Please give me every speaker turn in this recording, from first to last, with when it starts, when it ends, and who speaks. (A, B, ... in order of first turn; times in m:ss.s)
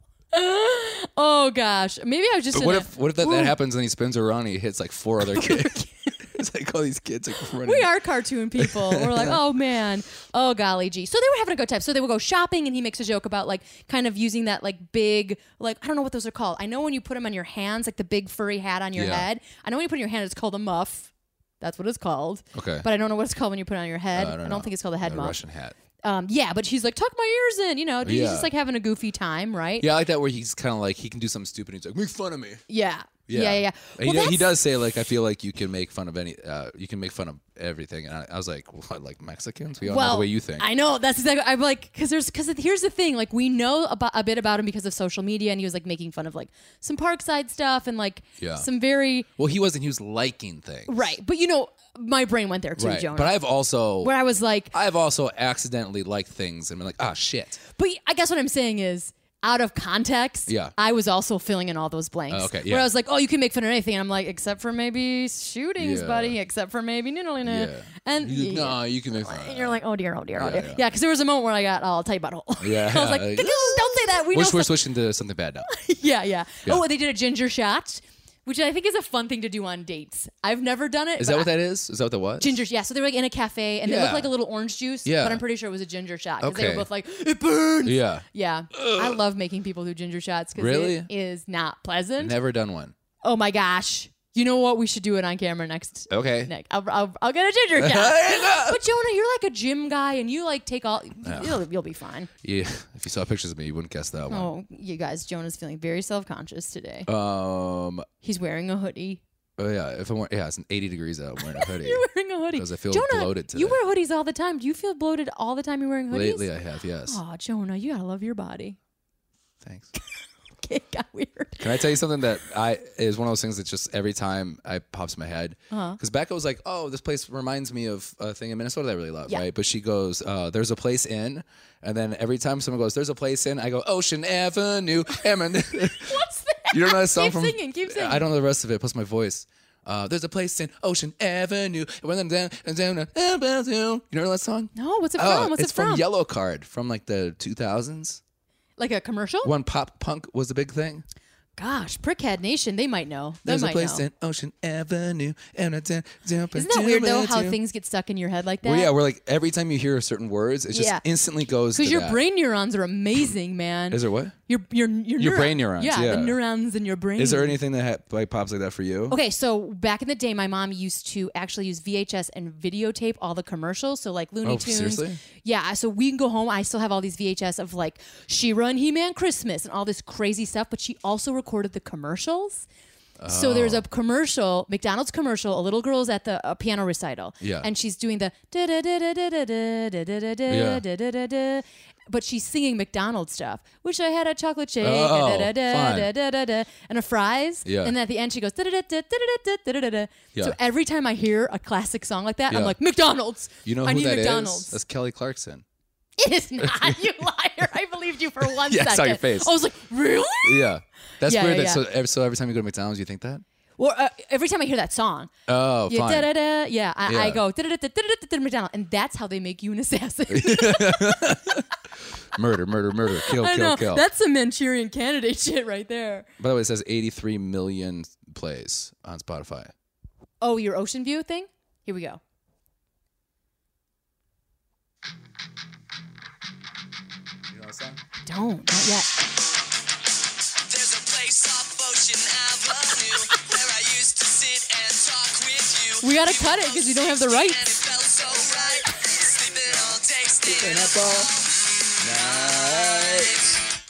0:00.3-0:03.5 A
0:02.5-0:07.9 B
0:05.2-0:06.2 A
0:07.6-0:25.4 A
0:08.6-0:09.4 B
0:19.0-0:19.2 B
0:22.5-0:22.8 B
0:24.1-0:25.8 B
0:26.0-0:29.9 A
0:28.0-0:28.5 B
0:29.8-0:32.6 B
0:32.7-0:34.5 A
0:33.3-0:40.7 B
0:39.8-0:49.3 A
0:48.4-0:48.7 B
0:49.4-0:51.1 B
0:50.9-0:53.4 A
0:52.8-0:54.1 B
0:54.0-0:54.7 A
0:54.7-0:57.6 B
0:57.7-1:14.8 A
1:00.5-1:00.7 B
1:02.3-1:02.9 B
1:05.8-1:06.4 B
1:07.4-1:09.8 B
1:10.3-1:10.8 B
1:12.6-1:15.7 B
1:15.7-1:21.5 A
1:21.2-1:22.6 B
1:22.4-1:32.4 A
1:23.8-1:24.3 B
1:25.0-1:25.4 B
1:26.4-1:26.9 B
1:27.8-1:29.2 B
1:30.6-1:31.1 B
1:32.2-1:32.9 B
1:33.2-1:42.3 A
1:36.1-1:36.5 B
1:37.8-1:38.8 B
1:41.2-1:41.6 B
1:42.4-1:44.5 B
1:44.3-1:47.1 A
1:47.0-1:48.0 B
1:48.2-1:49.2 A
1:49.6-1:53.8 B
1:51.4-1:56.5 A
1:56.1-1:57.2 B
1:57.0-1:58.8 A
1:59.6-1:59.9 B
2:00.6-2:01.9 A
2:01.6-2:28.2 B
2:05.7-2:06.0 A
2:15.9-2:18.2 A
2:24.7-2:26.0 A
2:28.8-2:29.5 A
2:29.4-2:31.0 B
2:31.6-2:34.0 A
2:33.4-2:37.6 B
2:36.5-2:38.9 A
2:38.6-2:42.2 B
2:40.7-2:41.0 A
2:41.7-2:47.6 A
2:43.9-2:44.4 B
2:45.2-2:46.4 B
2:47.2-2:49.2 B
2:49.1-3:02.6 A
2:54.4-2:55.2 B
3:03.2-3:03.8 B
3:03.3-3:24.8 A
3:07.4-3:07.7 B
3:10.5-3:10.8 B
3:14.8-3:16.1 B
3:17.6-3:17.9 B
3:22.5-3:22.8 B
3:23.6-3:25.6 B
3:26.2-3:30.7 A
3:26.6-3:27.0 B
3:28.4-3:29.5 B
3:30.4-3:33.4 B
3:31.2-3:31.8 A
3:33.8-3:35.3 A
3:35.5-3:36.3 B
3:35.9-3:41.6 A
3:37.0-3:37.4 B
3:40.3-3:41.6 B
3:42.3-3:44.0 B
3:43.1-3:46.3 A
3:46.4-3:49.7 B
3:50.4-3:52.2 A
3:57.5-3:58.0 B
3:58.2-3:59.1 A
4:00.6-4:13.6 C
4:06.0-4:07.6 A
4:10.4-4:11.3 B
4:12.0-4:13.5 B